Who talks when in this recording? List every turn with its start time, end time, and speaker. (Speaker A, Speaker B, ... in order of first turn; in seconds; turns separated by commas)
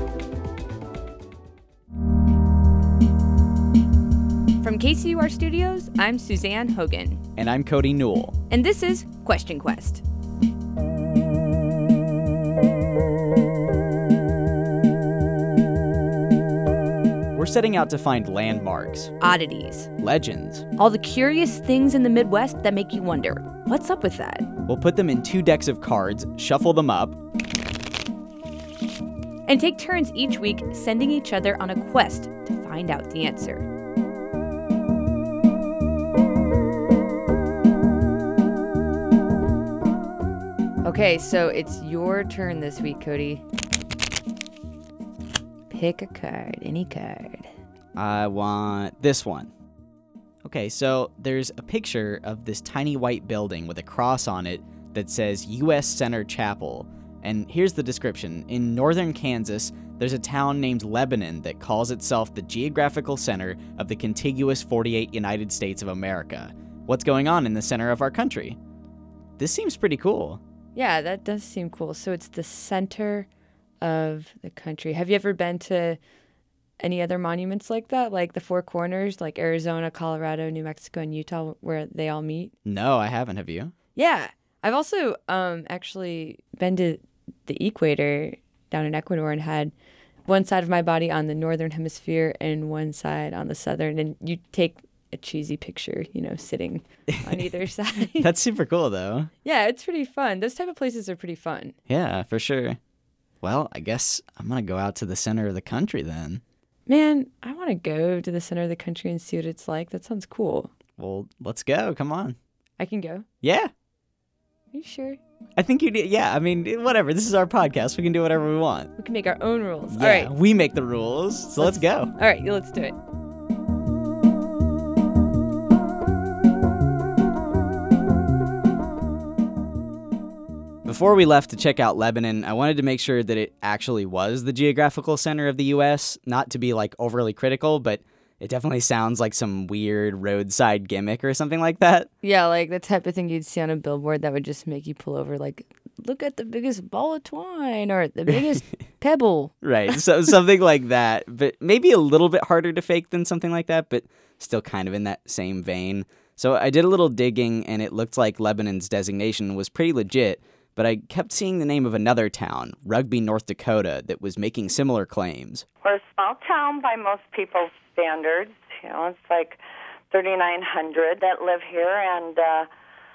Speaker A: 4.6-7.2, Speaker B: 7.4-8.3, Speaker A: 8.5-10.0, Speaker B: 17.3-19.1, Speaker A: 19.2-19.9, Speaker B: 20.0-20.6, Speaker A: 20.8-24.5, Speaker B: 24.7-27.2, Speaker A: 29.4-33.6, Speaker A: 40.8-43.4, Speaker A: 45.7-47.5, Speaker B: 48.0-49.5, Speaker B: 50.4-68.6, Speaker B: 69.4-70.4, Speaker A: 70.7-73.3, Speaker A: 73.8-76.0, Speaker A: 76.8-82.5, Speaker B: 82.7-83.7, Speaker A: 84.0-89.7, Speaker A: 90.3-98.3, Speaker B: 98.2-99.3, Speaker A: 99.4-101.7, Speaker B: 101.9-102.8, Speaker B: 103.4-106.4, Speaker A: 106.9-110.7, Speaker B: 111.0-112.4, Speaker A: 112.8-113.2, Speaker B: 113.4-113.7, Speaker A: 114.7-115.2, Speaker B: 115.6-118.9, Speaker A: 119.0-120.3, Speaker B: 119.9-122.1, Speaker A: 121.6-123.0, Speaker B: 130.8-142.1, Speaker A: 142.2-149.5, Speaker B: 149.6-165.6, Speaker C: 165.8-169.6, Speaker C: 170.1-172.7